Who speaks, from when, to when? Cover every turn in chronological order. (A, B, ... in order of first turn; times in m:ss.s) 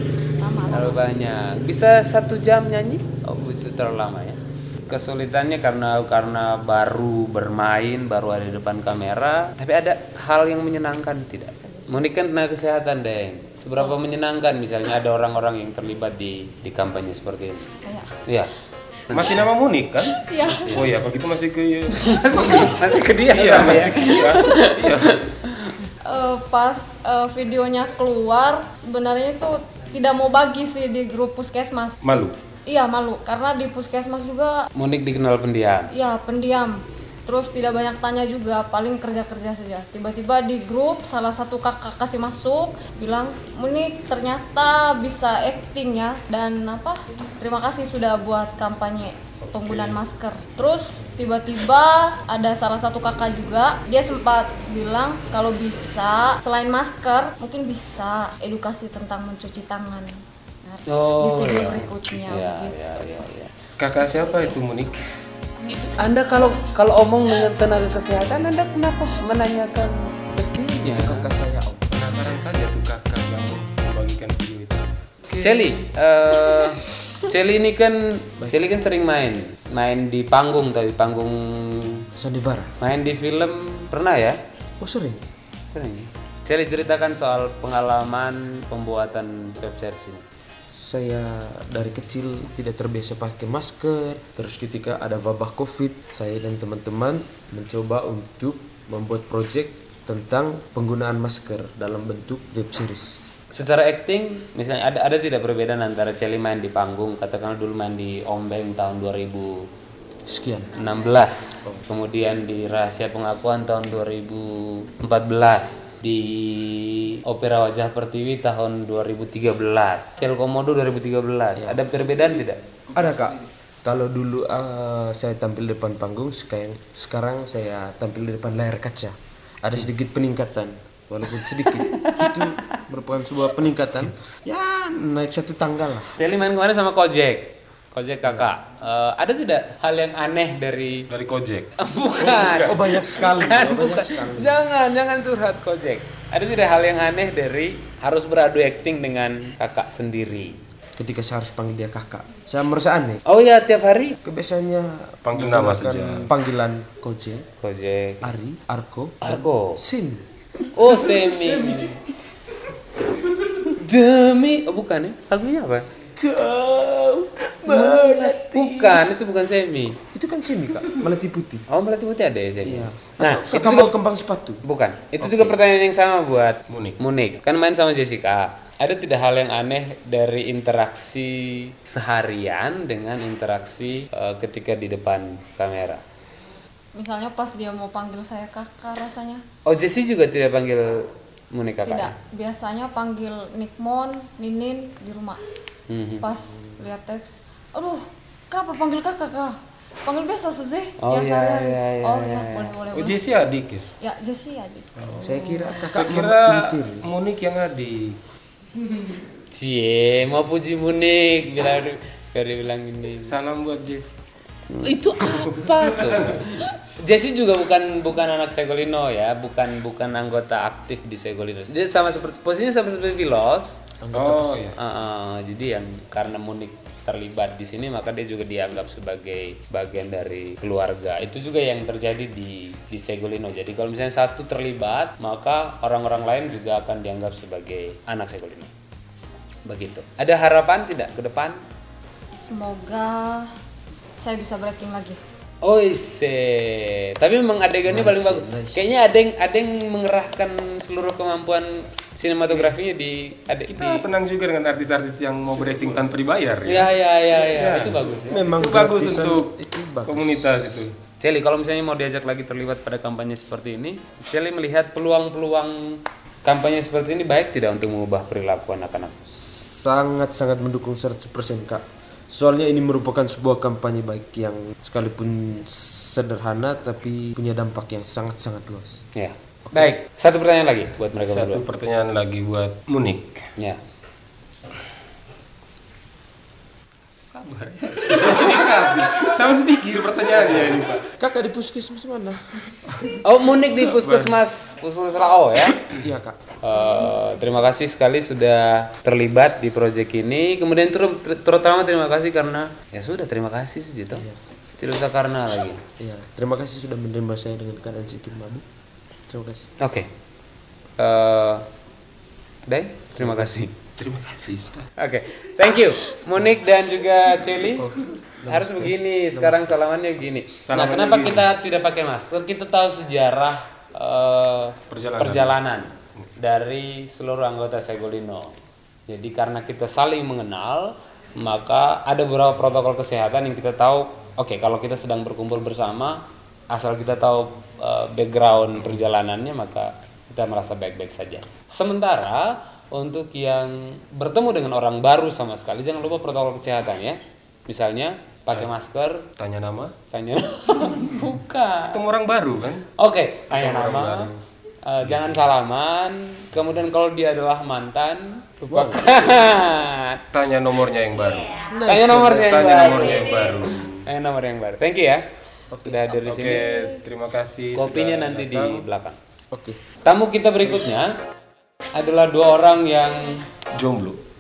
0:00.4-0:01.0 A
0:00.7-0:17.7 B
0:11.6-0:11.9 A
0:17.8-0:18.1 A
0:18.3-0:18.5 B
0:19.1-0:19.4 B
0:19.1-0:25.2 C
0:20.2-0:20.8 A
0:22.0-0:25.8 B
0:22.3-0:22.7 A
0:26.0-0:34.7 A
0:32.0-0:32.4 C
0:34.8-0:35.9 B
0:35.9-1:03.3 A
0:49.6-0:50.0 C
1:00.9-1:03.5 B
1:03.8-1:05.0 C
1:04.0-1:04.6 A
1:05.6-1:06.7 A
1:05.7-1:11.3 B
1:10.8-1:12.1 D
1:11.9-1:15.7 C
1:15.4-1:22.0 B
1:22.2-1:22.7 D
1:22.8-1:24.4 B
1:24.8-1:25.2 D
1:25.7-1:30.3 B
1:30.7-1:43.4 D
1:43.5-1:49.6 B
1:50.3-1:50.8 D
1:50.8-2:02.6 B
2:01.6-2:01.8 D
2:02.9-2:16.2 D
2:11.6-2:12.6 B
2:16.2-2:21.1 B
2:21.1-2:21.7 C
2:21.8-2:30.5 B
2:22.6-2:24.6 D
2:31.0-2:33.2 D
2:33.3-2:34.2 B
2:34.2-2:37.5 D
2:35.2-2:36.3 C
2:37.6-2:38.3 B
2:38.2-2:41.9 D
2:39.2-2:39.8 B
2:40.7-2:42.0 B
2:43.8-2:45.8 B
2:46.2-2:49.1 D
2:47.7-2:50.0 B
2:50.1-2:51.7 D
2:51.7-2:53.9 B
2:52.6-2:54.6 D
2:54.6-3:06.0 B
2:55.2-2:55.6 D
2:56.7-2:57.0 C
3:07.0-3:09.4 A
3:09.7-3:12.1 B
3:11.8-3:15.4 A
3:15.9-3:16.2 B
3:16.2-3:23.2 A
3:21.0-3:22.7 B
3:22.9-3:23.8 C
3:24.0-3:25.9 A
3:25.1-3:27.1 D
3:25.9-3:28.2 C
3:29.5-3:33.4 B
3:33.2-3:34.1 C
3:34.7-3:43.8 B
3:35.2-3:36.4 C
3:44.0-3:44.7 D
3:44.1-3:44.8 C
3:44.8-3:58.7 B
3:59.7-4:01.6 B
4:02.4-4:03.5 A
4:04.2-4:05.2 A
4:05.6-4:14.1 B
4:07.9-4:08.8 D
4:13.7-4:16.9 C
4:16.6-4:18.4 B
4:17.6-4:20.6 D
4:17.8-4:19.5 C
4:20.0-4:20.9 C
4:21.2-4:29.1 B
4:29.3-4:39.0 D
4:39.2-4:41.6 B
4:39.7-4:40.0 D
4:41.2-4:43.5 C
4:47.3-4:51.0 C
4:51.1-4:53.1 D
4:53.2-4:55.9 B
4:55.8-4:56.4 D
4:56.6-5:04.2 B
5:04.8-5:05.8 B
5:06.0-5:08.6 D
5:09.3-5:09.7 D
5:09.8-5:10.1 B
5:11.0-5:11.6 B
5:12.6-5:13.7 B
5:13.2-5:14.8 D
5:15.0-5:17.9 B
5:17.6-5:19.8 D
5:18.5-5:28.5 B
5:20.6-5:21.5 C
5:24.9-5:25.6 C
5:29.1-5:49.2 B
5:49.4-5:50.0 C
5:50.1-5:52.0 B
5:51.9-5:52.9 C
5:53.0-5:54.3 B
5:53.5-5:54.4 C
5:54.8-6:00.2 B
5:55.1-5:55.4 C
5:58.7-5:59.3 D
6:00.3-6:04.0 C
6:01.7-6:03.0 D
6:01.9-6:03.5 B
6:04.0-6:05.2 B
6:05.7-6:06.0 D
6:05.8-6:06.7 B
6:06.2-6:08.8 C
6:06.4-6:07.0 A
6:07.8-6:09.2 B
6:09.5-6:09.8 D
6:10.0-6:11.2 B
6:11.9-6:13.4 B
6:13.7-6:14.2 C